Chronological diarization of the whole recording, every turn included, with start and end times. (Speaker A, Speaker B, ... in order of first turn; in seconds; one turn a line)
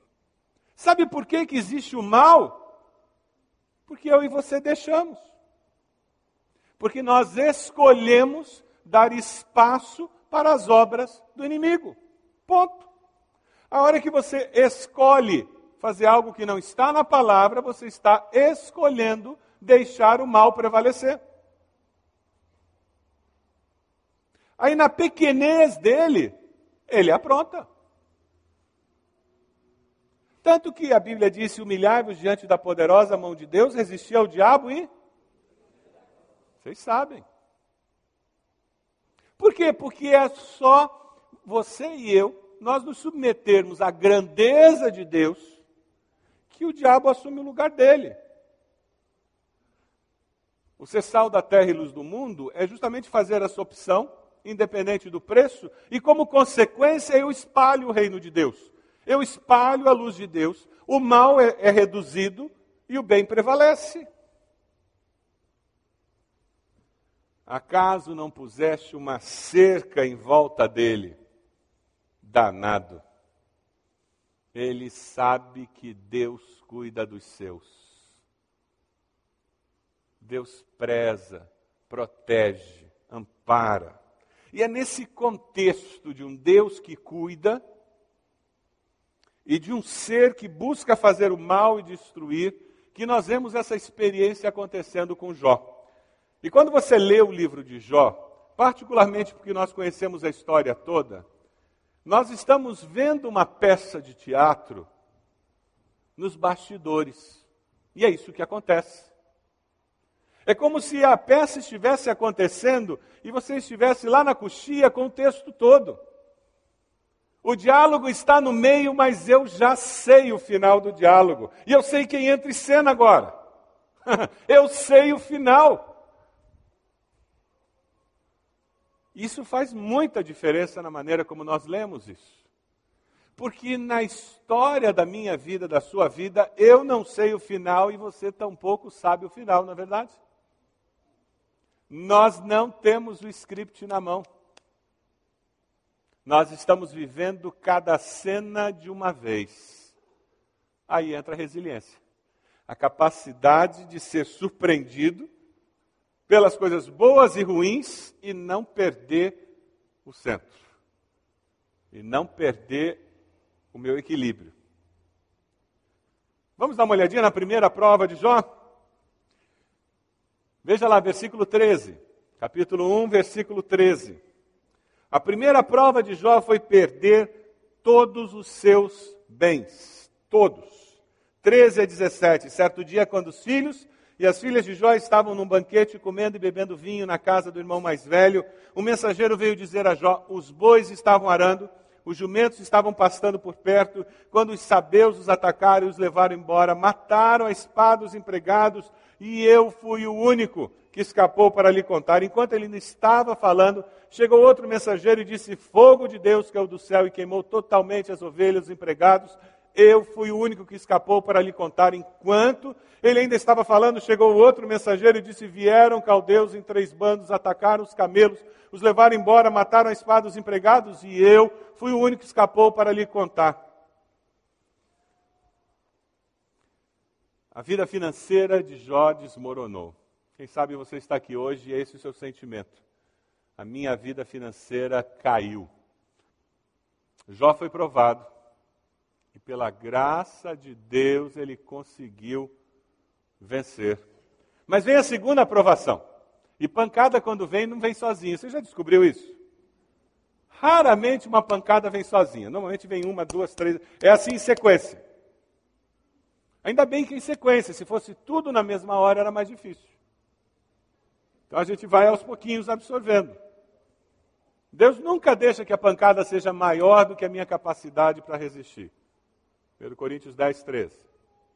Speaker A: 0.8-2.6
Speaker A: 3.9-5.3
Speaker A: 6.8-12.9
Speaker A: 13.7-21.2
Speaker A: 24.6-26.4
Speaker A: 26.9-27.7
Speaker A: 30.4-34.9
Speaker A: 36.6-37.2
Speaker A: 39.4-45.6
Speaker A: 46.5-48.2
Speaker A: 50.8-64.1
Speaker A: 67.5-71.2
Speaker A: 72.2-73.0
Speaker A: 74.5-78.0
Speaker A: 80.2-84.0
Speaker A: 84.5-87.6
Speaker A: 89.5-95.8
Speaker A: 96.4-101.3
Speaker A: 102.0-104.9
Speaker A: 106.2-109.1
Speaker A: 110.5-116.0
Speaker A: 117.4-123.3
Speaker A: 124.1-125.9
Speaker A: 129.1-132.4
Speaker A: 133.4-140.2
Speaker A: 141.9-144.3
Speaker A: 146.2-149.9
Speaker A: 150.9-152.0
Speaker A: 152.7-155.3
Speaker A: 156.3-159.4
Speaker A: 160.0-160.7
Speaker A: 161.9-163.0
Speaker A: 163.7-164.6
Speaker A: 166.6-168.4
Speaker A: 170.6-174.2
Speaker A: 175.1-223.6
Speaker A: 227.5-232.8
Speaker A: 233.6-235.7
Speaker A: 237.3-238.3
Speaker A: 239.3-242.5
Speaker A: 243.4-244.1
Speaker A: 244.7-246.0
Speaker A: 246.6-249.4
Speaker A: 250.5-255.0
Speaker A: 256.6-259.9
Speaker A: 261.5-263.4
Speaker A: 264.7-268.9
Speaker A: 269.8-271.1